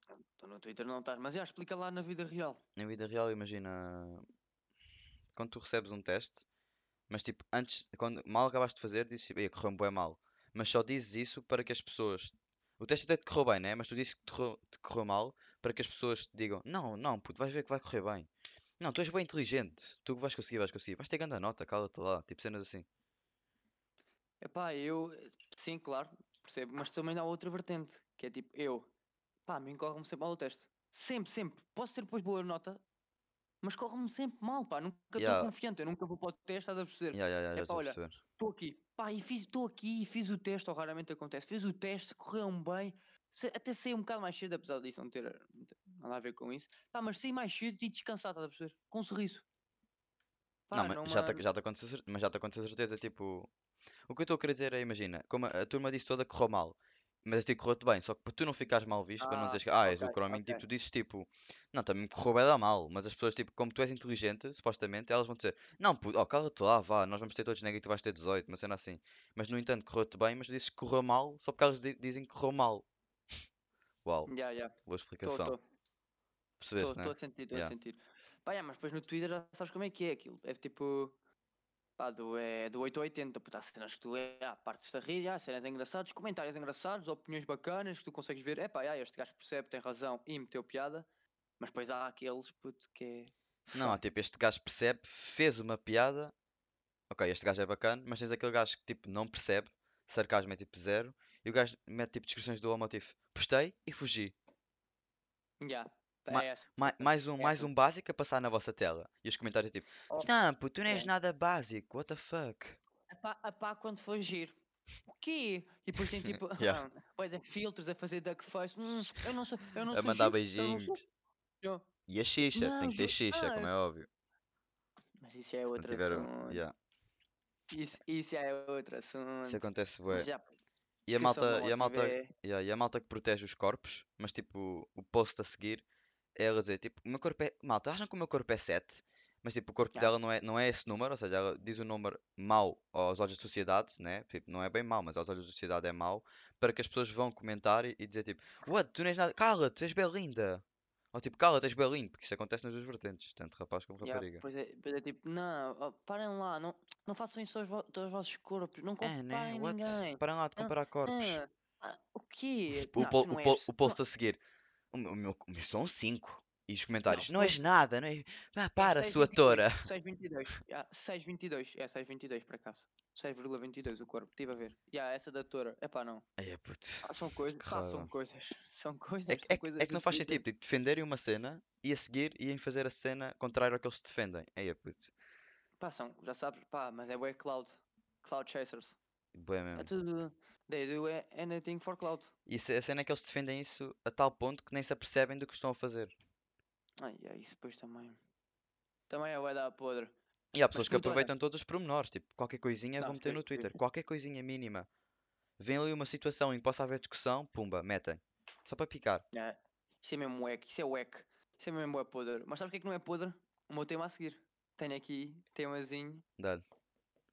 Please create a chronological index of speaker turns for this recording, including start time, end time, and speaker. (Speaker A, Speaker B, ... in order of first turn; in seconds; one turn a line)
Speaker A: 0.4-2.6
Speaker B: 2.8-4.2
Speaker B: 5.3-6.5
Speaker B: 7.1-18.3
Speaker B: 18.8-22.9
Speaker A: 24.4-28.9
Speaker A: 29.5-32.8
Speaker A: 33.6-49.4
Speaker B: 35.2-35.5
Speaker B: 37.1-38.2
Speaker A: 50.7-51.4
Speaker B: 50.7-53.5
Speaker B: 54.1-72.9
Speaker A: 59.2-60.6
Speaker B: 74.0-74.3
Speaker A: 74.3-75.6
Speaker B: 74.9-75.5
Speaker B: 76.6-77.8
Speaker A: 76.8-81.1
Speaker A: 82.0-91.1
Speaker A: 91.6-94.0
Speaker B: 93.7-96.3
Speaker B: 97.1-104.3
Speaker A: 105.6-107.7
Speaker B: 106.3-112.8
Speaker A: 113.1-114.5
Speaker A: 115.1-121.0
Speaker B: 116.0-116.8
Speaker B: 119.9-121.0
Speaker B: 122.1-124.1
Speaker A: 122.5-123.7
Speaker A: 125.2-126.6
Speaker B: 125.7-126.7
Speaker A: 127.7-130.4
Speaker B: 129.5-130.3
Speaker B: 131.1-135.8
Speaker A: 131.1-132.3
Speaker B: 136.3-154.4
Speaker A: 154.0-164.0
Speaker B: 159.0-161.4
Speaker B: 162.8-164.4
Speaker B: 164.9-169.8
Speaker A: 167.1-167.6
Speaker A: 168.8-176.2
Speaker B: 176.4-177.1
Speaker A: 177.0-180.4
Speaker B: 177.6-178.1
Speaker B: 179.3-185.1
Speaker A: 185.8-189.0
Speaker B: 189.3-189.9
Speaker A: 189.7-192.3
Speaker B: 192.5-196.2
Speaker A: 197.0-198.2
Speaker A: 199.1-200.2
Speaker B: 200.5-204.9
Speaker A: 200.7-201.3
Speaker A: 203.0-203.8
Speaker B: 205.6-209.2
Speaker A: 209.3-216.2
Speaker B: 216.4-216.6